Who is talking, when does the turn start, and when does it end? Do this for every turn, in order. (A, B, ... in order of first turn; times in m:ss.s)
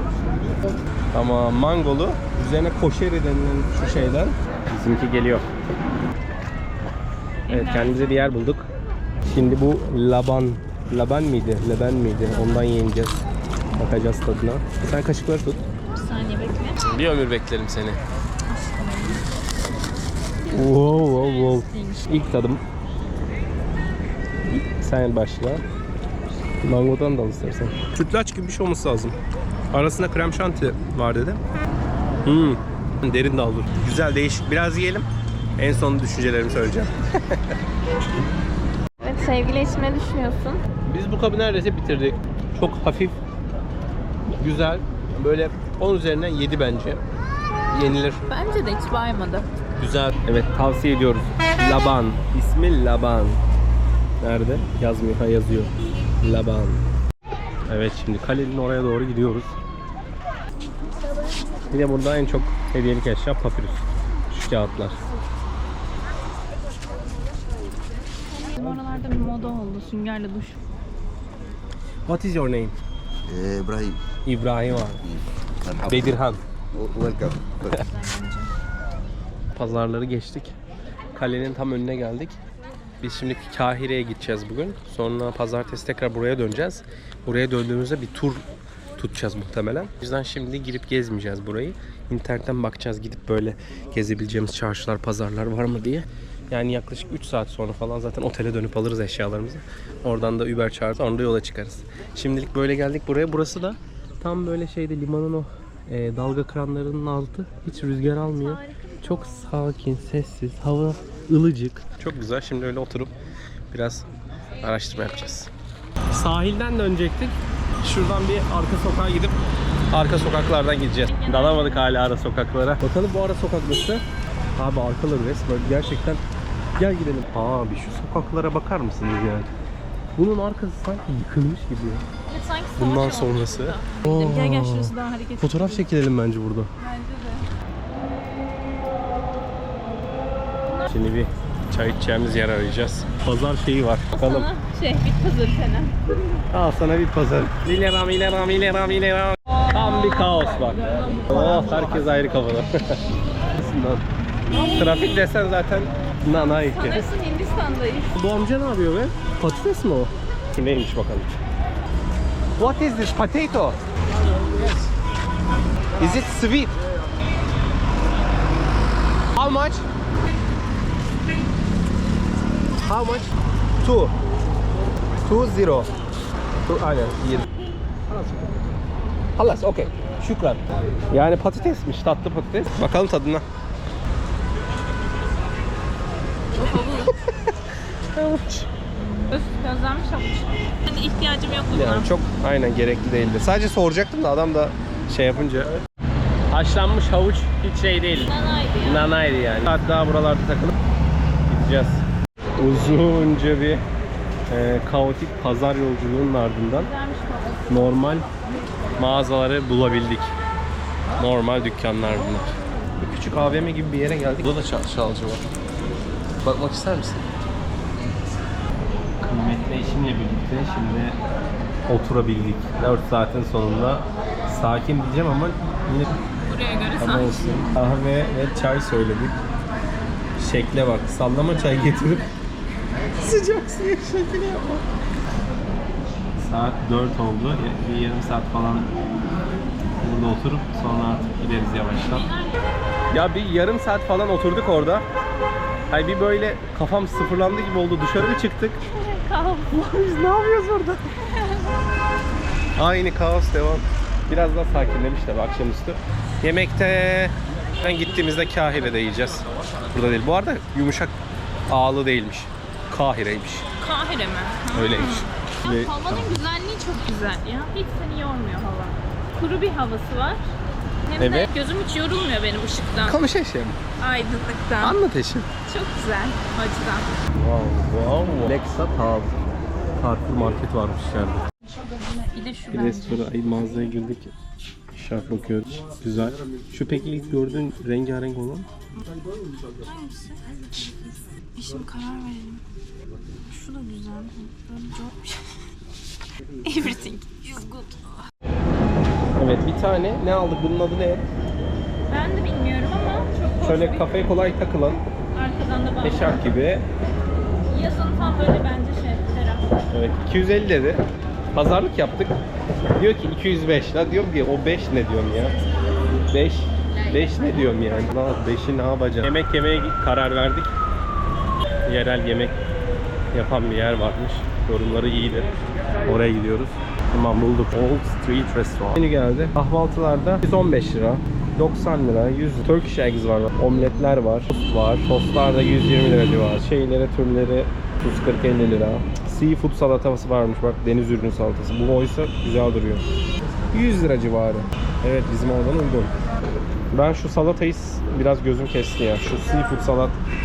0:01.1-0:05.5 A
0:07.5-0:08.3 B
0:07.5-0:08.7 A
0:09.3-0:13.3 A
0:13.8-0:15.6 A
0:16.0-0:16.8 B
0:16.8-0:18.0 A
0:18.5-0:19.2 B
0:20.5-0:22.1 B
0:20.5-0:22.6 A
0:24.5-0:25.6 A
0:26.6-0:29.2 A
0:29.7-0:31.4 A
0:32.2-0:37.6 A
0:39.0-0:40.6 B
0:40.8-0:43.2 A
0:44.4-0:47.0 A
0:47.7-0:48.2 A
0:48.3-0:49.5 B
0:49.8-0:53.4 A
0:54.2-0:56.8 A
0:57.7-0:59.5 A
1:01.7-1:05.0 A
1:08.3-1:10.6 B
1:12.1-1:12.8 A
1:13.3-1:14.0 C
1:14.3-1:15.0 A
1:15.0-1:16.2 C
1:15.8-1:16.4 A
1:16.7-1:17.9 C
1:17.7-1:18.5 B
1:19.6-1:20.6 A
1:21.1-1:22.4 A
1:23.0-1:28.5 A
1:29.0-1:53.1 A
1:48.6-1:49.0 B
1:53.7-1:54.1 A
1:54.6-1:55.5 A
1:56.1-1:59.4 A
1:59.9-2:04.0 A
2:01.1-2:01.8 B
2:04.6-2:06.2 A
2:06.8-2:09.5 A
2:10.2-2:12.0 A
2:12.3-2:15.8 B
2:12.8-2:16.7 A
2:16.8-2:17.5 B
2:20.9-2:24.5 A
2:24.1-2:26.4 B
2:26.5-2:33.0 A
2:29.7-2:32.1 B
2:33.5-2:34.1 A
2:34.7-2:37.1 A
2:36.5-2:38.1 B
2:38.1-2:41.4 A
2:42.6-2:43.8 A
2:44.6-2:44.9 A
2:46.0-2:46.8 A
2:49.3-2:49.9 A
2:52.8-2:54.2 A
2:55.2-2:55.9 A
2:56.6-2:57.5 A
2:58.1-2:58.6 A
2:59.4-3:03.4 A
3:06.5-3:07.1 B
3:06.8-3:07.5 A
3:08.1-3:08.7 A
3:09.3-3:12.1 B
3:11.7-3:15.8 A
3:16.5-3:20.8 A
3:18.2-3:19.1 B
3:21.5-3:22.0 A
3:22.6-3:23.8 A
3:24.5-3:26.9 A
3:26.8-3:27.9 B
3:27.7-3:28.3 A
3:29.0-3:30.3 A
3:31.2-3:35.5 A
3:36.4-3:37.3 A
3:39.2-3:41.2 A
3:41.9-3:46.2 A
3:46.4-3:47.7 B
3:47.0-3:49.4 A
3:50.4-3:52.3 A
3:53.2-3:54.8 A
3:56.4-3:58.9 A
4:00.0-4:02.3 A
4:01.9-4:02.7 B
4:03.1-4:05.0 A
4:05.9-4:08.8 A
4:08.9-4:09.7 B
4:09.7-4:11.1 A
4:11.4-4:11.7 B
4:12.8-4:21.2 A
4:21.7-4:23.7 A
4:23.8-4:30.5 B
4:24.7-4:26.4 A
4:31.1-4:33.2 B
4:31.2-4:31.5 A
4:33.0-4:33.8 A
4:34.0-4:35.0 B
4:34.8-4:35.5 A
4:35.6-4:37.1 B
4:37.4-4:39.4 A
4:40.0-4:41.4 A
4:41.8-4:43.3 B
4:42.7-4:44.3 A
4:44.9-4:48.7 A
4:49.8-4:52.6 B
4:53.5-4:55.4 B
4:56.6-4:58.2 B
4:59.4-5:01.3 A
5:02.1-5:04.1 B
5:03.6-5:05.0 A
5:05.4-5:06.4 B
5:06.0-5:06.9 A
5:07.7-5:09.7 B
5:09.9-5:11.0 A
5:11.5-5:12.4 A
5:13.0-5:15.6 A
5:16.3-5:20.7 A
5:21.8-5:22.6 A
5:23.3-5:25.5 A
5:26.0-5:43.1 A
5:43.7-5:46.1 A
5:46.9-5:50.2 A